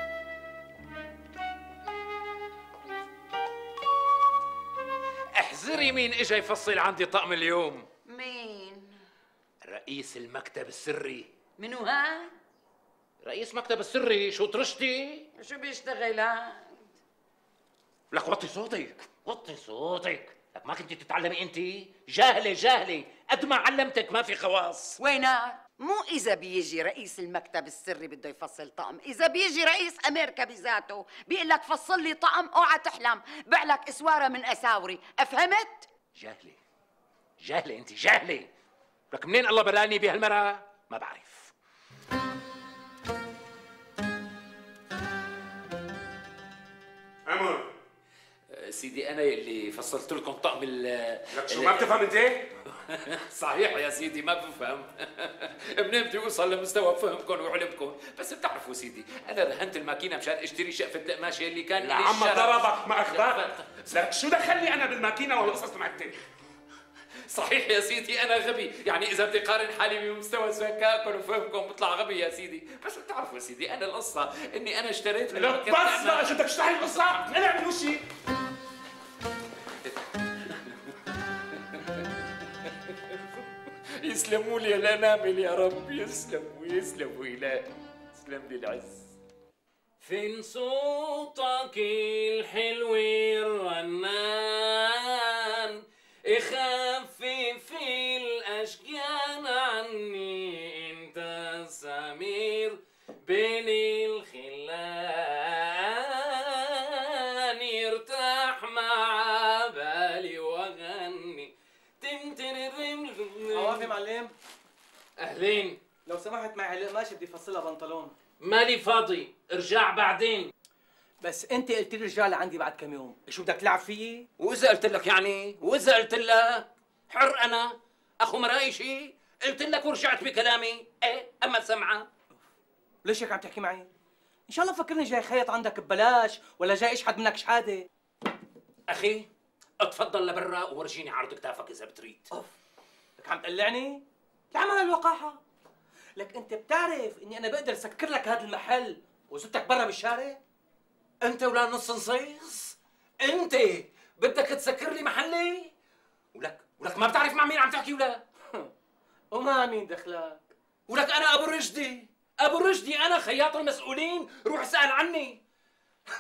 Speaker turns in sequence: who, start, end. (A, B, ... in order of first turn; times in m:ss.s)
0:05.4-0:07.9 A
0:08.1-0:09.0 B
0:09.6-0:11.3 A
0:11.6-0:12.4 B
0:13.2-0:15.3 A
0:15.4-0:16.8 B
0:18.1-0:25.0 A
0:25.0-0:35.9 B
0:36.2-0:36.6 A
0:37.4-0:38.5 A
0:39.1-0:41.5 A
0:47.3-0:47.7 C
0:48.5-0:52.0 A
0:51.3-0:52.5 C
0:52.8-1:03.7 A
1:01.8-1:06.2 C
1:07.3-1:17.3 A
1:15.3-1:18.0 C
1:24.0-1:29.1 A
1:30.0-1:53.9 A
1:53.5-1:54.3 D
1:55.2-1:55.8 A
1:56.1-1:58.1 D
1:58.4-2:00.5 A
2:01.2-2:04.2 D
2:04.4-2:12.1 A
2:13.0-2:13.9 D
2:14.5-2:17.8 D
2:18.9-2:19.3 A
2:19.8-2:22.3 A
2:23.2-2:25.4 D
2:26.2-2:30.4 D
2:31.2-2:35.7 A
2:36.3-2:38.2 A
2:39.3-2:40.5 D
2:40.9-2:45.4 A